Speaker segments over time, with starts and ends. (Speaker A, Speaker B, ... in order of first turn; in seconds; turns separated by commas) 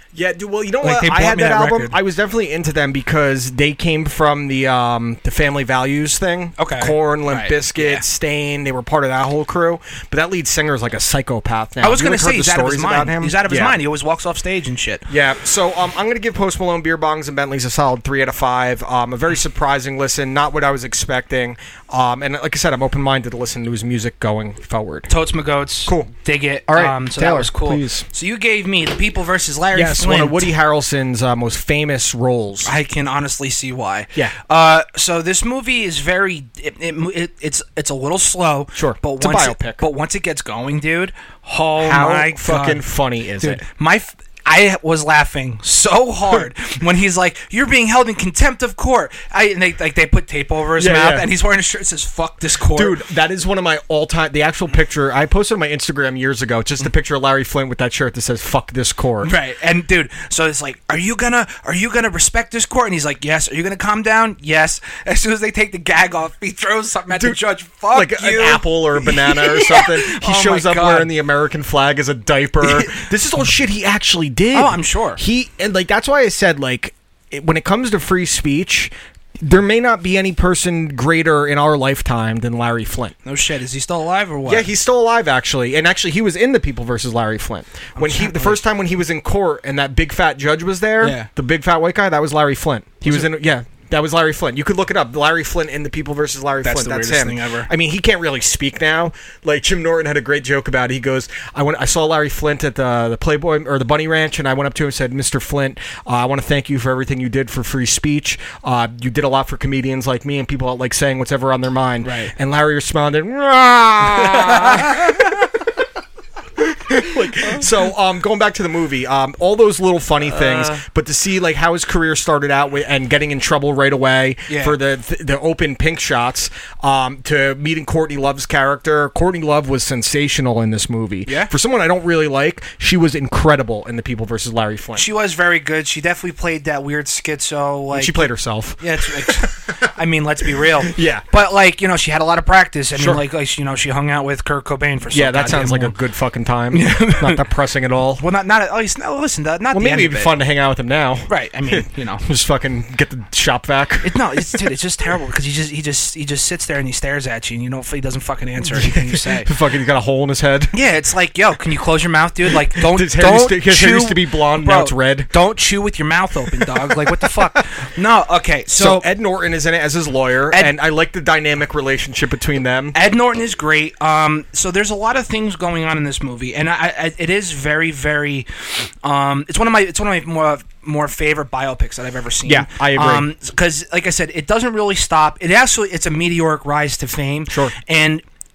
Speaker A: 0.1-13.8, Speaker B: 0.8-1.9, Speaker B: 6.6-8.0, Speaker B: 11.8-15.0, Speaker A: 15.1-25.1, Speaker B: 25.1-30.5, Speaker A: 25.9-26.1, Speaker A: 26.7-28.0, Speaker A: 29.7-32.7, Speaker B: 32.6-42.8, Speaker A: 38.8-39.8, Speaker A: 41.8-43.6, Speaker B: 43.4-53.0, Speaker A: 50.8-51.3, Speaker A: 52.7-59.3, Speaker B: 59.2-71.1, Speaker A: 67.1-67.4, Speaker A: 67.9-78.9, Speaker B: 72.6-73.0, Speaker B: 74.5-75.2, Speaker A: 79.4-83.1, Speaker B: 83.2-84.7, Speaker A: 84.5-115.6, Speaker B: 88.0-88.6, Speaker B: 91.0-91.3, Speaker B: 96.6-97.7, Speaker B: 112.0-112.3, Speaker B: 114.2-115.3, Speaker A: 116.6-135.1, Speaker B: 117.3-117.6, Speaker B: 120.3-120.8, Speaker B: 124.5-124.8, Speaker B: 134.9-138.3, Speaker A: 137.9-139.9, Speaker B: 138.8-145.9, Speaker A: 140.8-141.2, Speaker A: 142.9-143.2, Speaker A: 145.1-148.2, Speaker B: 146.7-147.4, Speaker B: 148.2-150.4, Speaker A: 149.7-154.6, Speaker B: 151.3-152.2, Speaker B: 154.0-159.5, Speaker A: 158.6-160.7, Speaker B: 160.7-169.0, Speaker A: 162.8-165.3, Speaker A: 166.7-167.6, Speaker A: 168.8-172.9, Speaker B: 172.9-178.5, Speaker B: 179.0-188.2, Speaker A: 182.4-183.3